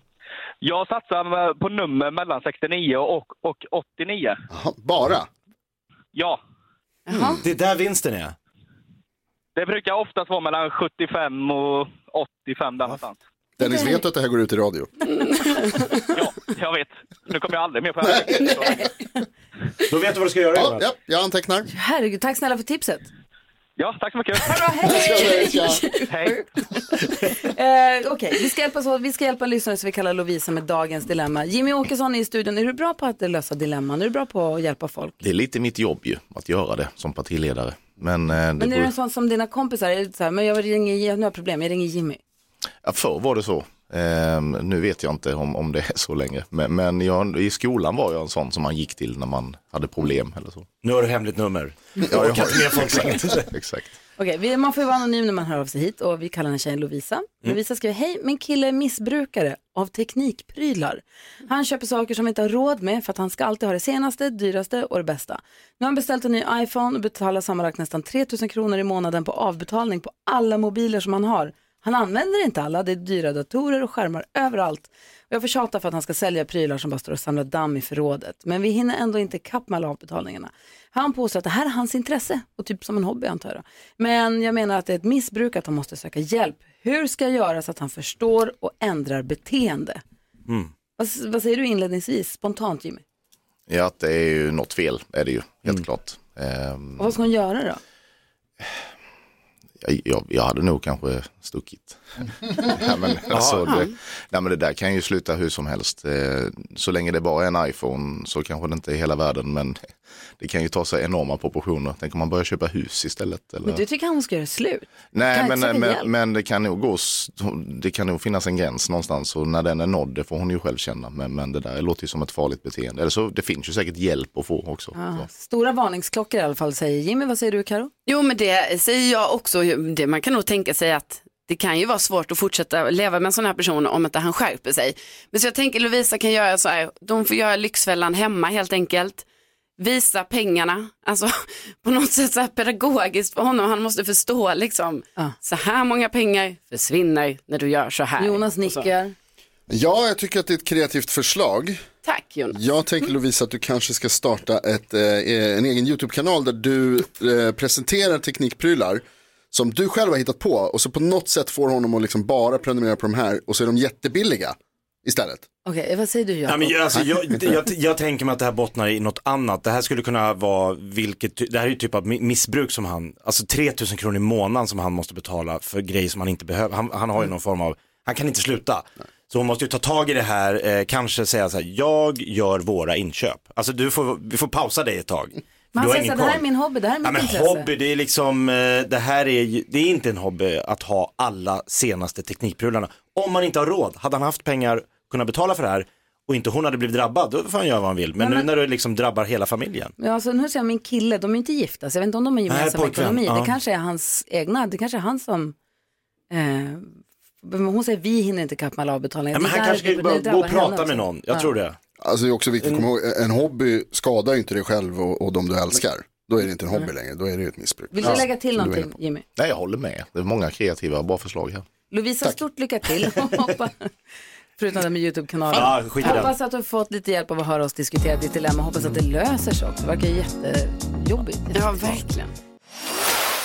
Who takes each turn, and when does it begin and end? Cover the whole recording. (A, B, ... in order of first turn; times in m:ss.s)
0:00.6-0:04.4 A
0:04.5-0:05.3 B
0:06.1-0:06.4 A
0:07.4-0:08.4 C
0:09.6-0:13.2 A
0:13.6-0:14.9 B
0:13.6-0:14.0 D
0:16.1-0:18.8 A
0:18.1-0:18.5 B
0:19.9-0:20.9 C
0:20.5-0:21.7 B
0:21.7-0:23.1 D
0:23.8-0:24.6 A
0:24.4-0:35.2 D
0:24.8-0:25.9 B
0:26.1-0:26.4 A
0:35.2-0:38.9 E
0:38.6-0:42.2 D
0:42.8-0:50.7 E
0:50.8-0:53.5 C
0:52.0-0:53.9 E
0:54.2-1:30.0 D
1:30.5-1:30.7 C
1:31.0-1:33.0 D
1:33.7-1:37.1 E
1:37.0-1:37.8 D
1:39.8-1:49.9 E
1:43.3-1:43.7 C
1:50.4-1:53.8 E
1:53.6-1:56.1 D
1:55.1-2:05.3 E
2:04.9-2:07.9 D
2:08.1-2:19.2 F
2:19.8-2:28.9 F
2:28.2-2:29.2 D
2:29.7-2:31.8 B
2:32.0-2:32.6 F
2:32.5-2:45.4 B
2:45.6-2:46.8 D
2:46.5-3:06.4 C
3:05.8-3:07.7 D
3:07.0-3:19.9 C
3:18.2-3:18.5 D
3:20.0-3:25.6 D
3:22.5-3:23.5 C
3:26.3-3:31.5 D
3:29.3-3:31.8 C
3:32.0-3:38.9 B
3:37.9-3:39.2 D
3:39.4-3:41.7 E
3:41.9-3:43.9 D
3:44.6-3:52.0 D
3:45.5-3:46.3 C
3:51.5-3:52.3 F